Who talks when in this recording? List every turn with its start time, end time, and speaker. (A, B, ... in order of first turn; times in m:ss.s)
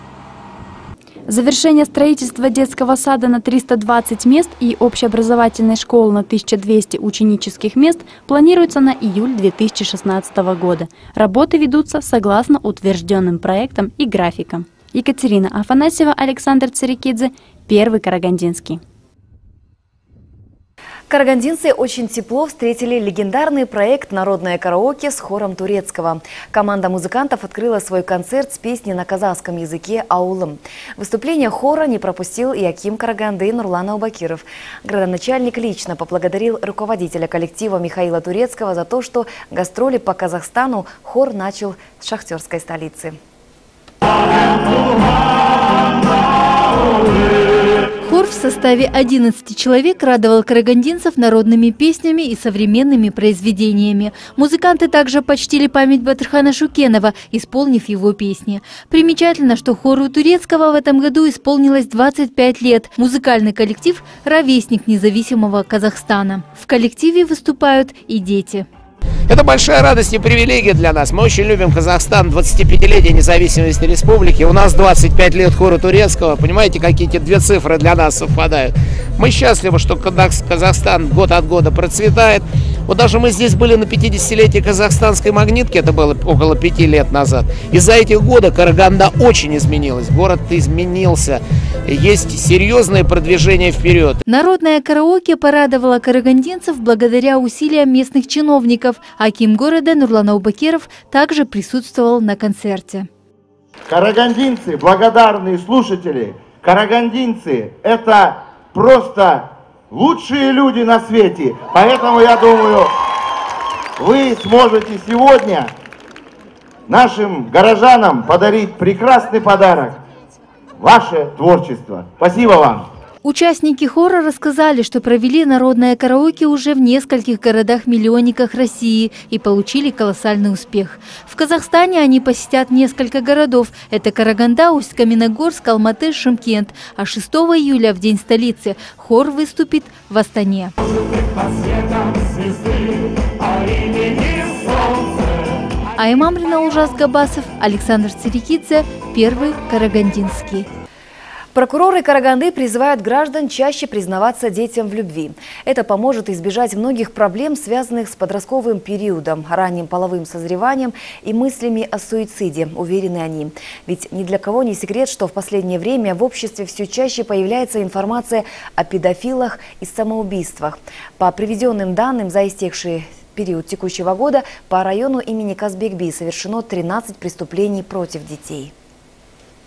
0:01.3-0:18.8 A
0:21.1-0:43.2 B
0:48.0-1:08.7 C
1:09.3-1:34.2 D
1:34.3-1:43.1 C
1:43.9-1:52.9 E
1:54.0-1:55.7 E
1:56.9-2:00.0 E
2:00.8-2:02.9 E
2:03.2-2:20.7 C
2:26.0-2:30.7 C
2:31.6-2:58.7 B